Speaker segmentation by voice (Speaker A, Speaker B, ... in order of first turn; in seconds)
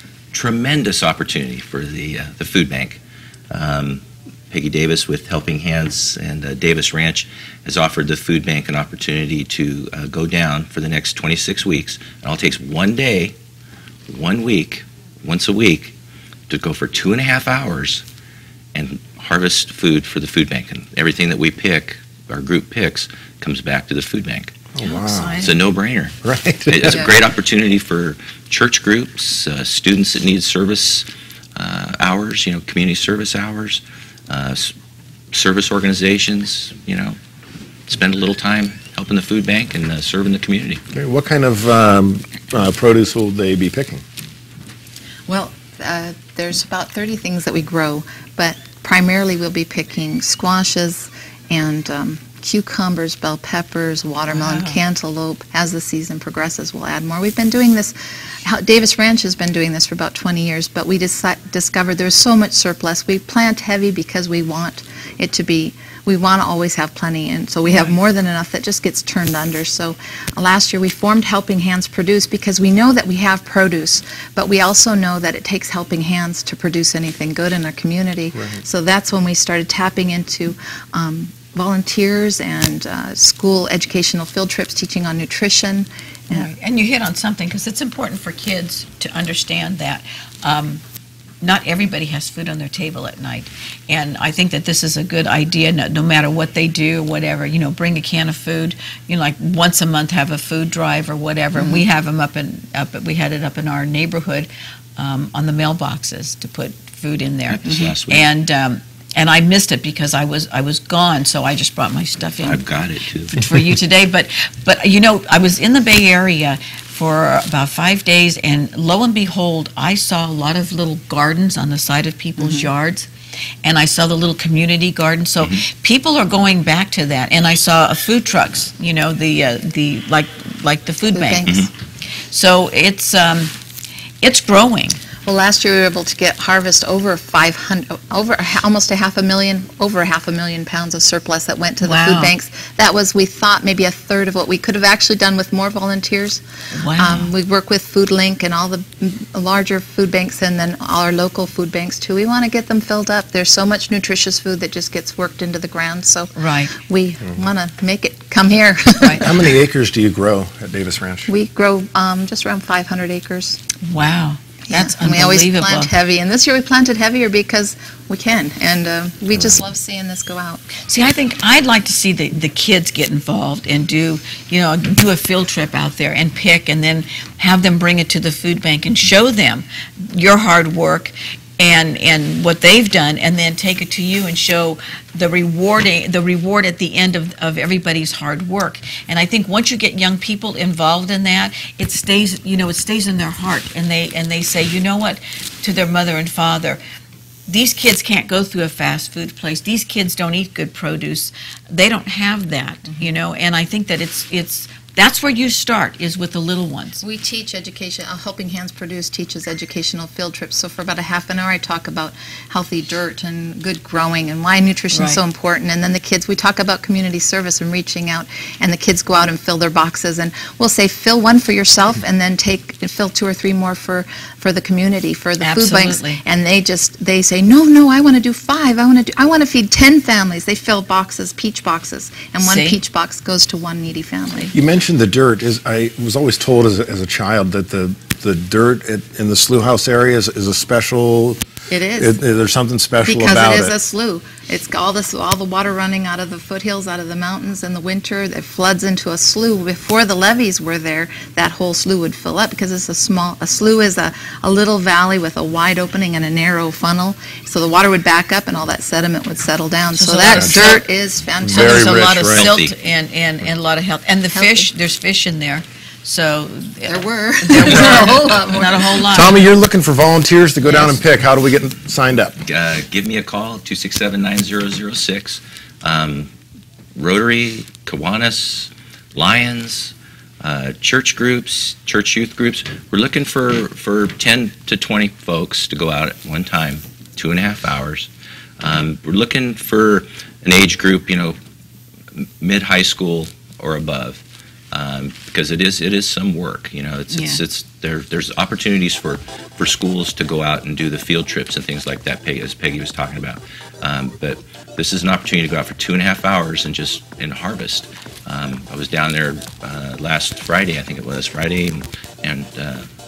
Speaker A: 0.3-3.0, 3.5-13.3, 14.1-15.9, 16.5-18.0, 18.7-24.5, 25.4-26.1, 26.7-34.7, 35.3-37.2, 37.9-40.8, 107.5-108.3, 112.4-113.4, 262.3-262.7, 272.4-276.3, 276.9-288.1, 288.6-291.4, 292.1-312.9
Speaker B: 24.7-25.5, 26.2-27.1, 40.9-44.0, 78.3-78.6, 159.2-161.3, 234.5-241.4, 242.0-243.8, 260.3-260.7, 261.4-262.5, 269.1-272.4
Speaker C: 24.8-25.6, 54.3-54.8, 67.7-68.0, 86.3-90.8, 91.4-112.6, 113.3-123.1, 123.6-131.5, 132.3-133.5, 134.2-135.0, 141.8-142.3, 146.7-147.3, 156.4-156.7, 163.8-165.9, 170.8-196.8, 197.5-207.0, 214.9-215.2, 225.4-226.2, 232.4-232.8, 259.9-260.8, 261.5-269.5, 270.6-271.0, 297.1-297.4
Speaker D: 45.3-86.5, 101.5-101.8, 122.4-122.7, 131.1-131.7, 135.2-146.4, 146.9-156.3, 156.9-159.4, 161.3-163.6, 164.7-170.7, 207.0-234.5, 241.7-242.2, 243.0-262.0, 264.3-264.7, 266.9-268.8